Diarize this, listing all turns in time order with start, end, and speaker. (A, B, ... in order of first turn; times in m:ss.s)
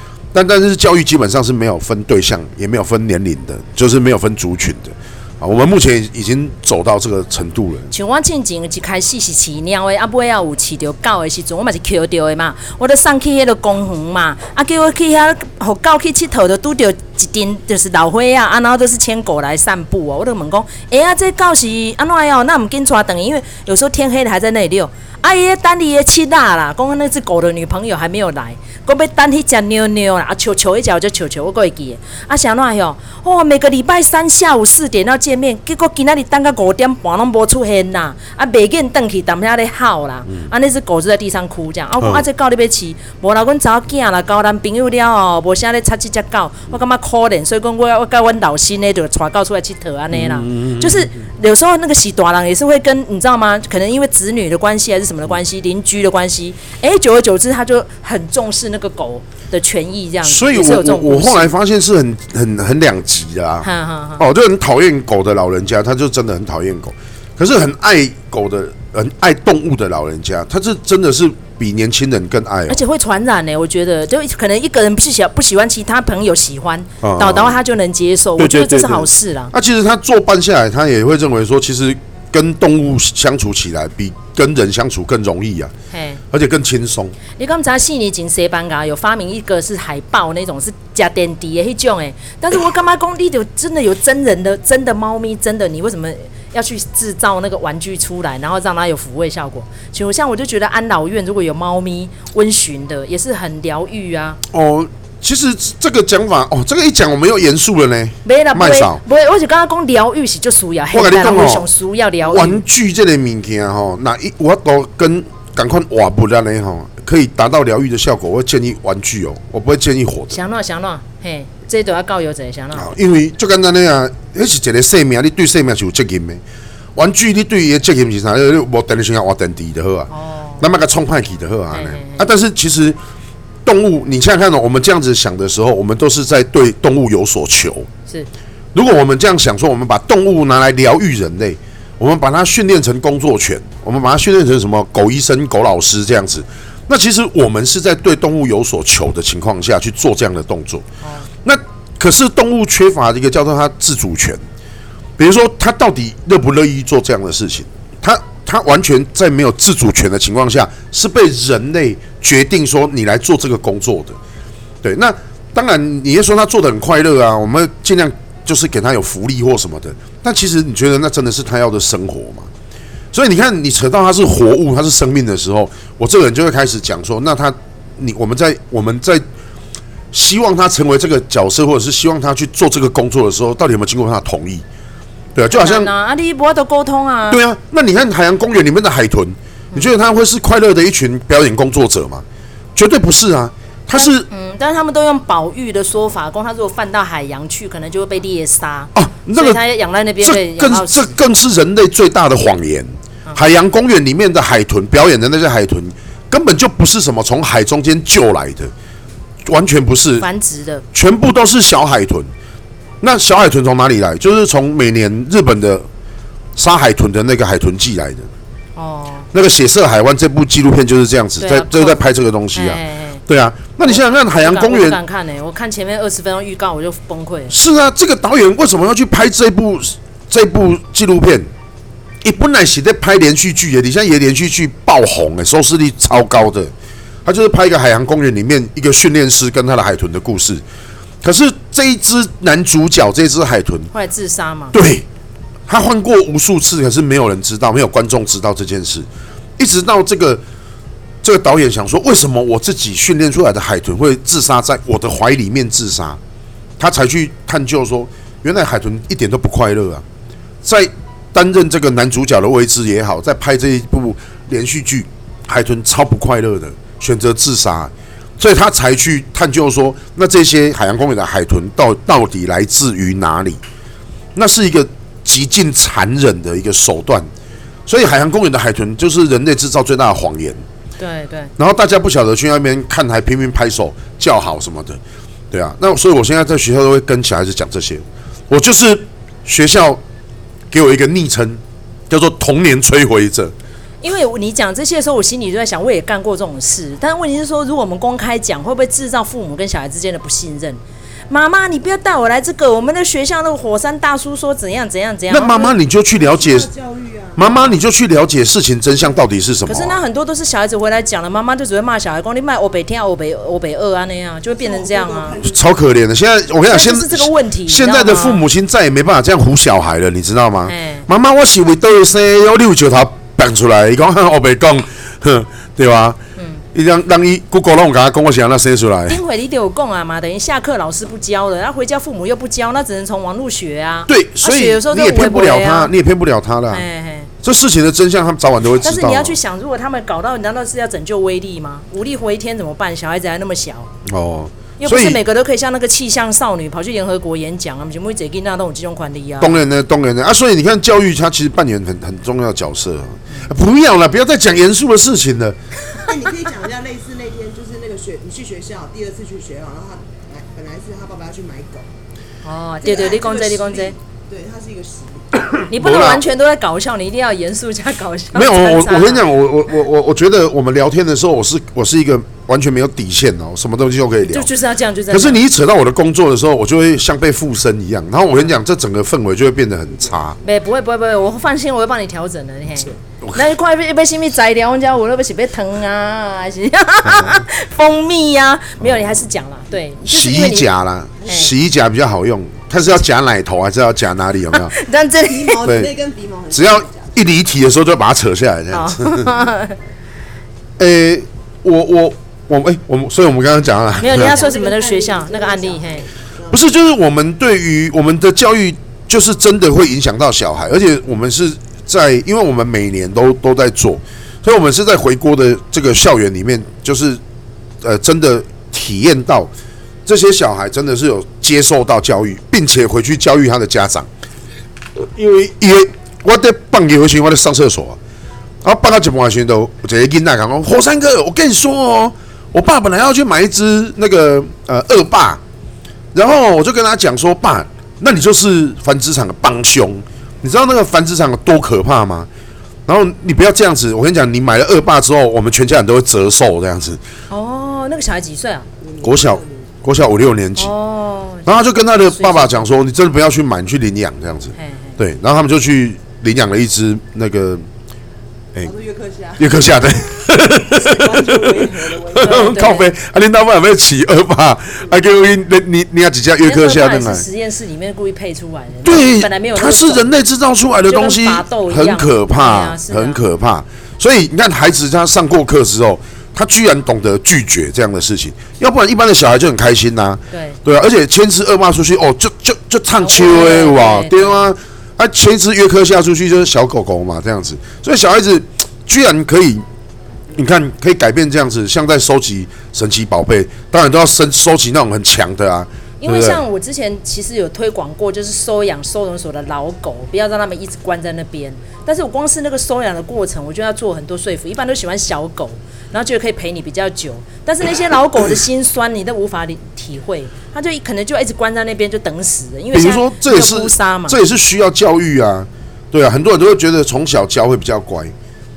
0:00.3-0:07.9 A
0:07.9-1:01.5 B
0:50.1-0:51.2 A
1:00.2-1:12.8 A
1:03.6-1:04.2 B
1:12.7-1:19.5 B
1:17.0-1:17.6 A
1:18.4-1:25.7 A
1:25.9-1:26.2 B
1:26.3-1:27.2 A
1:27.4-1:44.4 B
1:44.5-1:49.0 A
1:48.2-1:52.6 B
1:50.9-1:51.7 A
1:52.2-2:00.4 A
2:00.3-2:02.9 B
2:02.7-2:06.4 A
2:07.0-2:13.0 A
2:10.1-2:10.7 B
2:11.7-2:12.3 B
2:13.7-2:17.9 A
2:18.7-2:30.8 A
2:31.0-2:31.3 B
2:31.4-2:34.4 A
2:35.2-2:44.2 A
2:44.8-2:52.5 A
2:53.1-2:59.2 A
3:00.1-3:04.6 A
3:05.4-3:05.9 A
3:05.5-3:07.4 B
3:07.3-3:12.2 A
3:12.8-3:14.3 A
3:13.9-3:21.2 B
3:19.0-3:19.6 A
3:20.2-3:28.7 A
3:29.4-3:30.3 A
3:30.2-3:30.8 B
3:30.9-3:32.3 A
3:33.0-3:35.9 A
3:36.6-3:38.3 A
3:38.8-3:39.3 B
3:39.3-3:45.0 A
3:41.4-3:43.2 B
3:43.8-3:47.6 B
3:47.5-3:51.5 A
3:52.2-3:56.7 A
3:57.2-4:00.6 A
4:01.2-4:03.9 A
4:03.9-4:04.8 B
4:04.7-4:05.1 A
4:05.7-4:10.4 A
4:11.2-4:16.2 A
4:16.8-4:20.0 A
4:20.6-4:33.6 A
4:34.4-4:37.3 A
4:37.9-4:40.6 A
4:41.0-4:41.5 B
4:41.6-4:45.0 A
4:45.5-4:50.0 A
4:50.7-4:53.5 A
4:54.0-5:05.7 B
5:05.3-5:06.7 A
5:06.1-5:07.5 C
5:07.4-5:10.0 A
5:07.4-5:07.8 B
5:09.7-5:15.4 B
5:14.5-5:15.7 C
5:15.4-5:26.2 A
5:16.6-5:18.4 B
5:20.7-5:21.0 B
5:26.4-5:26.6 B
5:26.7-5:29.2 A
5:29.1-5:35.9 B
5:34.1-5:36.8 A
5:36.7-5:37.3 B
5:37.4-5:39.4 A
5:38.8-5:43.9 B
5:44.0-5:45.2 A
5:44.8-5:49.6 B
5:49.4-5:55.6 A
5:56.0-6:01.9 C
6:02.4-6:04.0 B
6:02.8-6:05.5 C
6:05.5-6:06.2 A
6:05.7-6:09.3 B
6:08.3-6:14.5 A
6:14.3-6:15.4 B
6:15.1-6:20.4 A
6:20.4-6:30.7 B
6:23.2-6:23.5 A
6:27.1-6:27.4 A
6:28.8-6:29.2 A
6:30.0-6:34.7 A
6:31.2-6:31.5 C
6:34.5-6:35.6 B
6:35.2-6:37.2 C
6:35.6-6:35.9 A
6:36.5-6:39.3 A
6:38.7-6:39.8 B
6:40.8-6:44.4 A
6:44.0-6:46.0 B
6:44.1-6:46.6 C
6:46.5-6:57.2 A
6:57.8-6:59.5 A
7:00.1-7:04.1 A
7:05.0-7:08.0 A
7:08.6-7:15.4 A
7:16.1-7:22.3 A
7:22.9-7:27.0 A
7:27.3-7:28.7 B
7:28.8-7:29.8 C
7:29.0-7:30.7 A
7:30.6-7:32.7 B
7:31.5-7:37.7 A
7:34.6-7:35.0 B
7:38.6-7:42.6 C
7:39.4-7:47.2 A
7:42.2-7:42.9 B
7:46.4-7:50.1 B
7:48.8-8:09.6 A
7:50.9-7:53.2 B
8:00.3-8:00.6 B
8:03.0-8:04.5 B
8:10.3-8:16.4 A
8:16.0-8:34.2 B
8:32.7-8:38.1 A